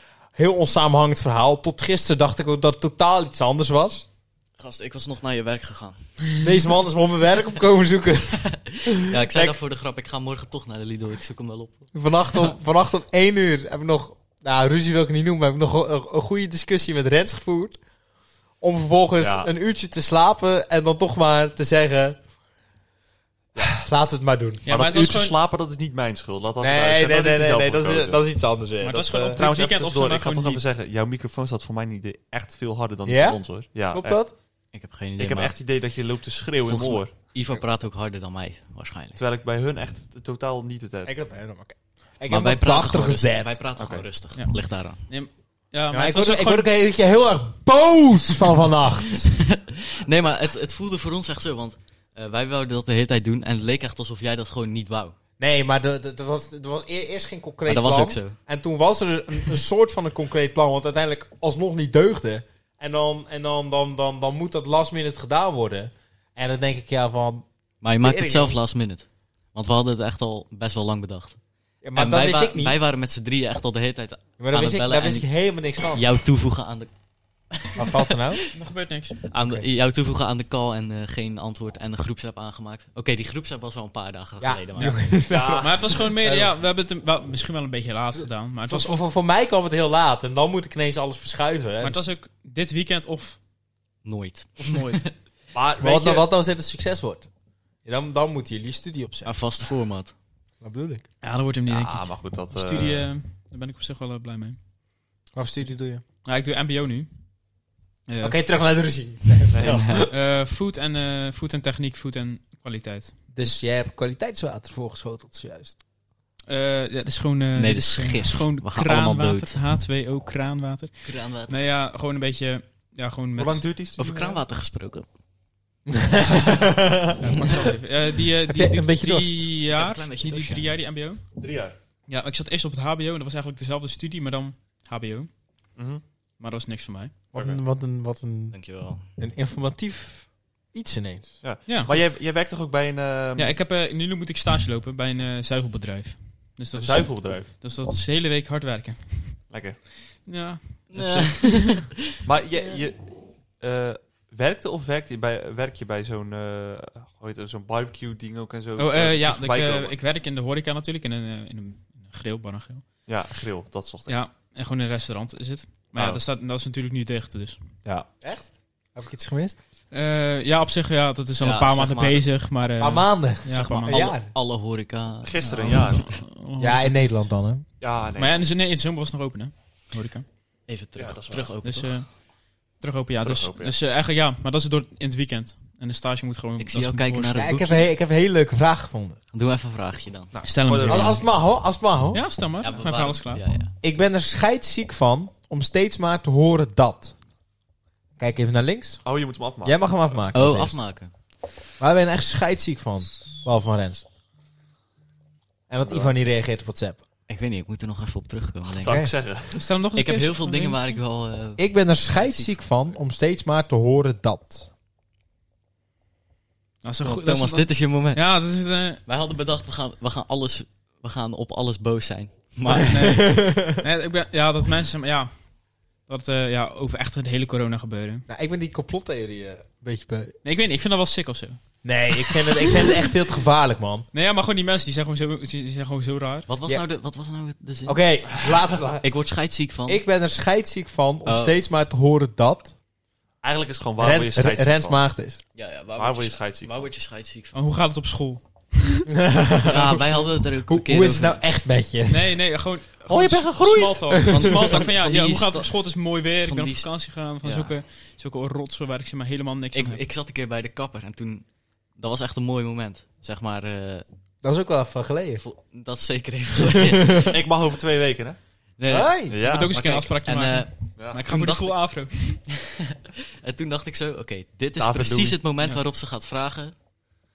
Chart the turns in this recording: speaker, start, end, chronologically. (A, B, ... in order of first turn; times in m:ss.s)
0:00.4-0:04.1 A
0:04.6-0:06.4 B
0:06.4-0:09.6 A
0:08.3-0:12.5 B
0:11.9-0:17.8 A
0:18.6-0:22.2 A
0:19.2-0:19.5 C
0:23.6-0:24.6 A
0:24.7-0:25.4 D
0:24.7-0:28.2 C
0:26.6-0:29.4 A
0:28.8-0:30.6 D
0:29.4-0:34.2 C
0:33.0-0:34.3 A
0:34.7-0:35.6 B
0:35.2-0:37.1 C
0:36.6-0:39.2 B
0:39.2-0:41.1 C
0:41.1-0:43.5 A
0:42.3-0:45.0 B
0:43.8-0:44.1 C
0:44.4-0:46.7 D
0:45.9-0:49.4 A
0:49.4-0:55.2 B
0:55.4-1:07.5 A
0:57.7-0:58.4 B
1:07.8-1:11.4 B
1:08.0-1:08.6 A
1:11.8-1:12.8 A
1:12.0-1:15.3 B
1:14.4-1:16.1 A
1:15.9-1:16.9 B
1:17.5-1:18.1 B
1:17.8-1:18.4 A
1:18.5-1:19.2 D
1:19.3-1:25.0 B
1:24.4-1:26.5 A
1:24.8-1:29.0 D
1:25.3-1:25.7 C
1:28.7-1:32.1 A
1:31.8-1:33.4 D
1:34.0-1:35.1 B
1:34.6-1:35.2 D
1:35.5-1:36.3 C
1:35.8-1:37.3 A
1:37.8-1:39.7 A
1:39.2-1:40.2 B
1:40.6-1:41.0 A
1:41.2-1:44.6 D
1:41.7-1:43.1 C
1:45.4-1:46.0 A
1:46.2-1:47.1 D
1:48.1-1:48.5 D
1:48.2-1:50.1 A
1:49.5-1:49.9 C
1:49.6-1:50.1 B
1:50.0-1:53.2 D
1:53.3-1:55.8 A
1:56.5-2:03.6 D
1:57.6-1:59.6 B
2:01.0-2:01.7 B
2:03.4-2:04.4 C
2:04.0-2:05.1 B
2:05.9-2:07.2 A
2:07.2-2:11.3 D
2:08.5-2:09.5 A
2:09.7-2:10.7 B
2:11.4-2:11.8 C
2:12.1-2:15.3 D
2:15.8-2:16.0 C
2:16.4-2:17.1 D
2:17.3-2:21.4 A
2:17.4-2:17.6 C
2:18.5-2:19.1 B
2:21.4-2:23.5 C
2:21.7-2:22.0 D
2:23.4-2:32.0 D
2:26.7-2:27.5 C
2:29.5-2:29.8 C
2:30.9-2:32.2 B
2:32.2-2:40.0 C
2:38.8-2:42.9 D
2:43.1-2:44.2 C
2:44.1-2:47.6 D
2:46.0-2:46.2 C
2:48.2-2:49.6 A
2:49.9-2:54.1 D
2:51.4-2:52.3 B
2:52.8-2:54.3 A
2:53.5-2:56.1 B
2:55.2-2:56.1 C
2:55.4-2:57.3 D
2:56.6-2:57.6 A
2:57.8-2:58.5 C
2:58.2-3:00.3 D
3:00.7-3:02.0 B
3:01.0-3:01.5 C
3:01.6-3:07.5 D
3:03.2-3:03.7 C
3:06.6-3:07.9 B
3:07.4-3:09.2 A
3:09.3-3:10.3 B
3:10.3-3:11.2 C
3:10.4-3:11.3 D
3:10.9-3:12.2 A
3:12.1-3:13.4 D
3:12.6-3:13.7 B
3:13.8-3:17.2 A
3:18.2-3:19.0 A
3:19.0-3:19.9 C
3:19.6-3:20.8 A
3:20.3-3:21.1 B
3:21.8-3:24.0 A
3:25.7-3:27.0 A
3:25.8-3:26.1 C
3:27.3-3:29.0 B
3:28.7-3:29.7 C
3:28.8-3:29.1 A
3:29.6-3:31.0 D
3:30.0-3:32.6 B
3:31.6-3:34.7 A
3:36.8-3:39.0 D
3:37.0-3:38.3 B
3:39.1-3:43.1 B
3:42.7-3:45.3 D
3:42.9-3:43.8 A
3:46.1-3:48.3 D
3:48.3-3:50.4 A
3:50.4-3:53.1 D
3:51.8-3:54.1 A
3:54.1-3:56.5 D
3:56.5-3:58.2 B
3:57.9-3:59.1 A
3:59.0-4:00.0 B
3:59.9-4:02.7 A
4:01.3-4:01.6 B
4:03.4-4:05.0 C
4:04.0-4:05.4 A
4:05.6-4:07.6 B
4:06.0-4:06.9 C
4:07.5-4:09.1 D
4:09.1-4:12.4 A
4:09.6-4:11.4 B
4:12.1-4:20.0 D
4:13.1-4:14.2 C
4:14.0-4:14.8 A
4:14.3-4:15.8 B
4:16.4-4:17.7 B
4:19.7-4:24.1 B
4:24.4-4:25.4 A
4:25.4-4:27.3 B
4:27.0-4:27.3 A
4:27.3-4:28.4 C
4:28.8-4:32.2 B
4:28.9-4:29.4 A
4:29.3-4:29.7 C
4:29.4-4:32.5 D
4:33.4-4:36.8 B
4:34.8-4:35.4 C